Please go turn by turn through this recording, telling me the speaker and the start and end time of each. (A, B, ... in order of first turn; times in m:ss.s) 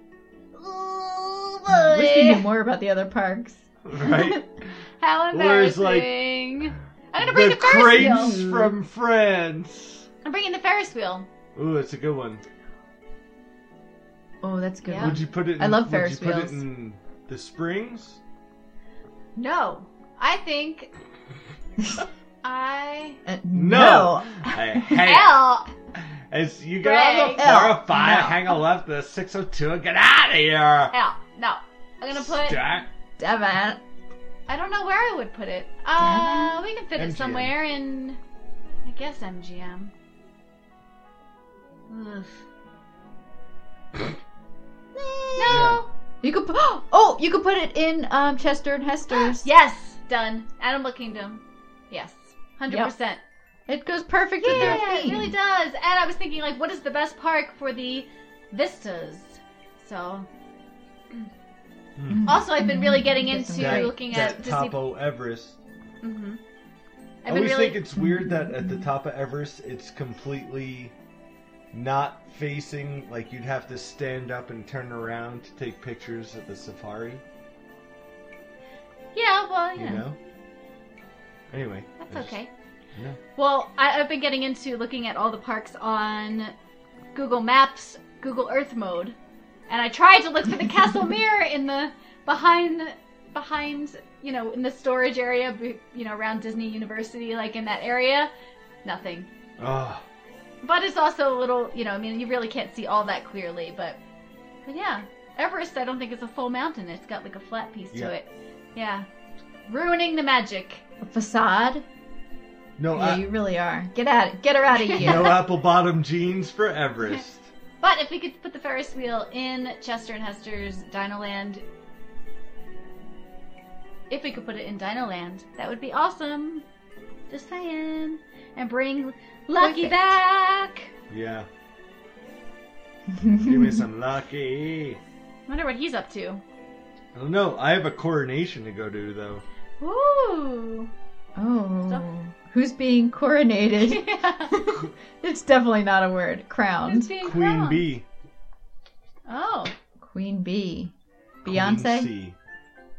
0:00.6-0:02.5 A
0:01.7-0:04.4 B
0:03.8-0:04.4 C
0:05.0-0:08.4 A
0:05.3-0:06.1 C
0:07.2-0:10.0 C
0:07.9-0:08.7 B
0:10.2-0:11.3 A
0:11.5-0:12.4 C
0:14.4-0:16.6 B
0:14.8-0:15.2 A
0:15.0-0:18.2 C
0:19.4-0:20.9 A
0:22.4-0:23.2 A
0:23.2-0:25.0 B
0:23.5-0:30.9 C
0:25.0-0:25.7 A
0:26.8-0:27.4 A
0:27.4-0:28.6 B
0:30.9-0:32.6 A
0:32.1-0:32.9 C
0:33.2-0:33.8 B
0:34.5-0:38.2 A
0:36.0-0:36.5 B
0:36.9-0:37.5 C
0:38.8-0:39.9 A
0:41.9-0:42.4 A
0:45.0-0:45.6 B
0:45.4-0:45.9 A
0:45.5-0:45.8 C
0:46.2-0:49.5 B
0:49.1-0:53.2 A
0:53.7-0:55.3 B
0:54.4-1:00.3 A
0:54.5-0:54.8 C
1:02.0-1:02.3 C
1:02.1-1:04.4 B
1:02.2-1:04.8 A
1:03.5-1:05.6 C
1:06.0-1:06.4 A
1:07.2-1:07.8 A
1:07.3-1:10.9 C
1:08.0-1:08.9 B
1:11.7-1:17.2 C
1:19.1-1:20.0 A
1:19.8-1:20.2 C
1:21.5-1:22.4 C
1:22.0-1:22.5 A
1:23.4-1:26.5 A
1:27.1-1:29.2 A
1:29.7-1:38.3 A
1:38.8-1:39.3 A
1:39.6-1:40.0 C
1:40.6-1:44.0 A
1:44.6-1:49.0 A
1:49.7-1:50.8 A
1:51.0-1:51.8 B
1:52.8-1:53.2 C
1:52.9-1:55.5 B
1:54.8-1:55.3 A
1:55.0-1:57.5 C
1:57.8-2:01.6 A
2:04.1-2:06.6 A
2:07.3-2:10.9 A
2:09.6-2:10.2 B
2:11.1-2:11.5 C
2:13.1-2:13.8 B
2:13.4-2:15.0 C
2:15.5-2:16.4 A
2:17.1-2:19.4 C
2:19.8-2:20.9 A
2:21.4-2:27.2 B
2:23.8-2:24.6 A
2:26.8-2:27.9 A
2:27.2-2:28.0 C
2:29.3-2:29.7 A
2:30.0-2:32.1 B
2:31.4-2:32.4 C